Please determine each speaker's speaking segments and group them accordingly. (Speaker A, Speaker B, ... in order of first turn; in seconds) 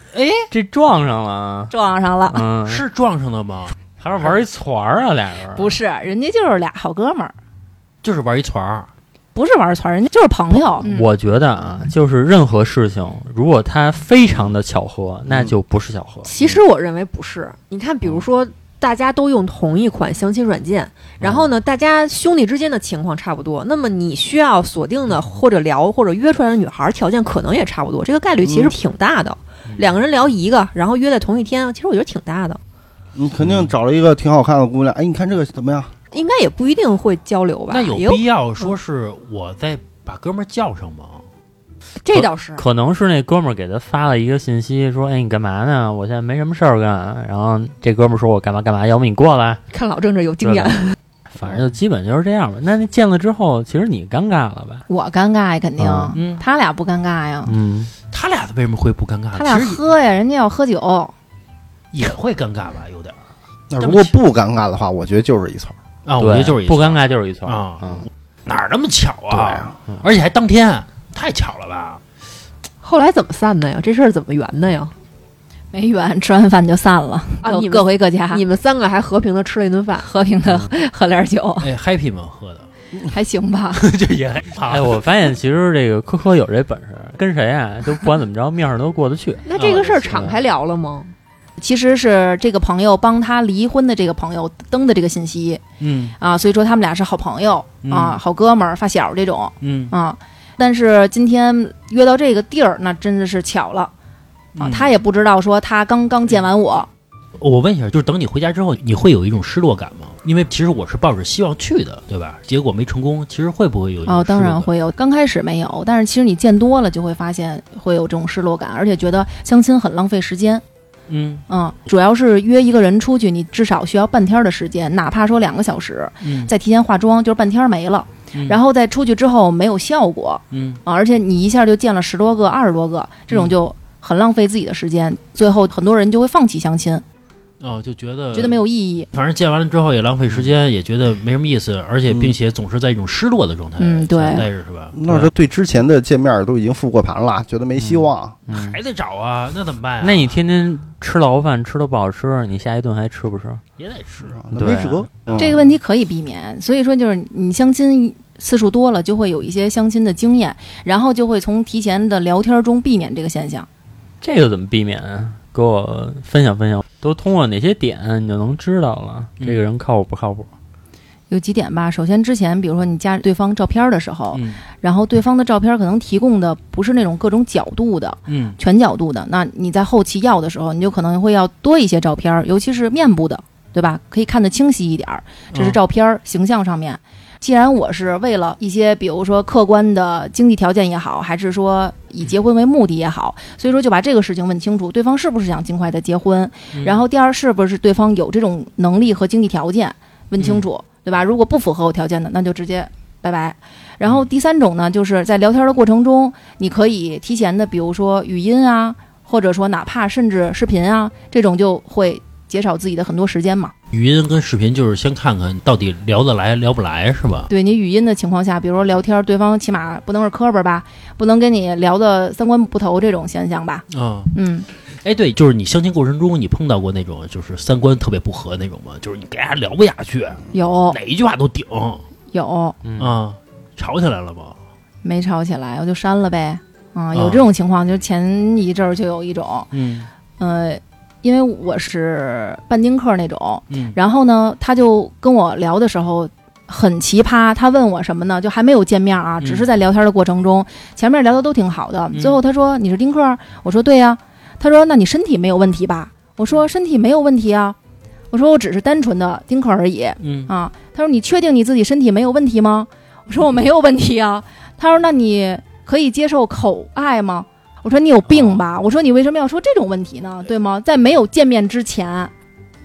Speaker A: 0.1-0.5, 2.6-4.3, 8.0-8.9, 37.7-41.2, 56.1-56.4, 58.1-59.8, 61.9-63.2, 63.8-64.2, 66.0-72.0, 81.6-82.7, 83.7-85.0, 89.5-90.1, 95.8-96.2, 97.8-98.2, 99.6-99.9, 104.5-104.9, 107.4-114.7, 121.1-121.4, 126.2-126.5, 128.3-128.6, 130.5-130.8, 133.3-133.5, 137.6-138.6, 139.1-145.3, 148.5-150.4, 153.8-154.3, 174.3-174.6, 178.3-178.6, 185.5-185.8, 196.7-197.0, 200.4-200.7, 213.9-217.5, 223.9-224.3, 224.9-232.0, 233.0-234.6, 237.1-237.5, 239.7-240.1, 243.7-243.9, 249.4-249.7, 252.1-252.4, 260.2-260.5
Speaker B: 0.5-1.7, 2.3-2.8, 4.0-5.8, 10.8-16.5, 21.2-21.5, 42.1-49.6, 50.4-50.8, 51.3-54.8, 55.8-56.1, 57.5-57.9, 66.2-68.1, 84.7-89.5, 90.0-90.4, 147.8-148.8, 150.0-153.6, 154.5-155.1, 164.2-170.5, 232.8-233.2, 268.3-268.6
Speaker C: 1.7-2.4, 5.5-7.3, 9.3-11.1, 54.9-57.5, 59.3-61.1, 75.7-78.4, 80.0-81.7, 83.1-83.8, 91.6-95.6, 96.2-103.9, 104.6-106.9, 114.0-120.6, 121.5-137.0, 138.3-139.1, 143.8-144.5, 155.4-163.7, 171.3-213.7, 217.5-224.7, 230.5-231.0, 232.3-232.8, 235.0-239.7, 240.4-257.8, 258.3-272.3
Speaker D: 16.2-32.6, 36.1-38.2, 42.0-42.6, 49.7-51.0, 72.8-74.9, 77.4-80.1, 89.5-91.1
Speaker E: 28.4-28.7, 33.1-35.9, 63.7-65.8, 69.3-69.7, 144.9-148.4, 154.3-155.6